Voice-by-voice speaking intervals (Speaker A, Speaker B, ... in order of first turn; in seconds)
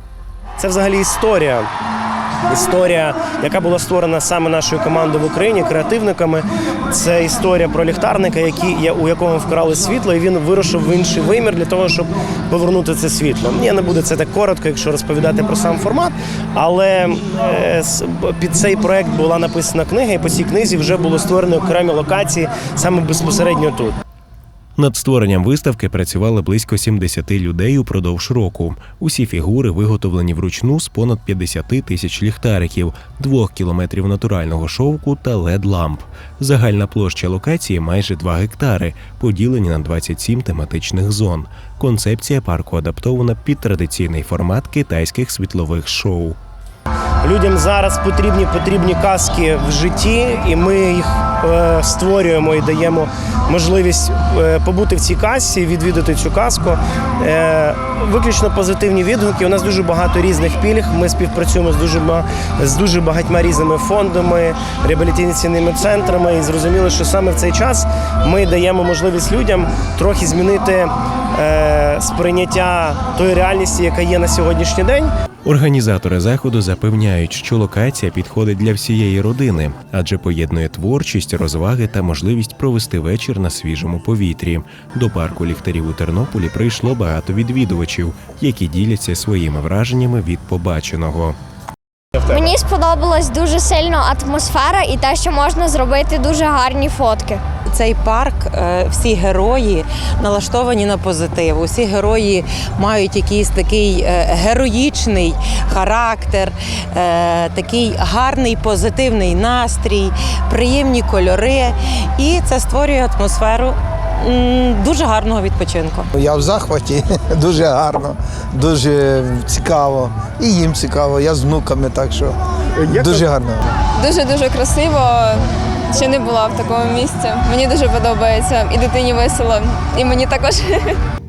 Speaker A: 0.6-1.7, 2.5-23.9, 47.2-75.1, 122.8-123.2
Speaker B: 24.8-46.4, 75.5-91.4
Speaker C: 92.3-97.4
Speaker D: 97.8-116.0
Speaker E: 116.1-122.4, 122.9-123.7
Speaker F: 124.0-131.0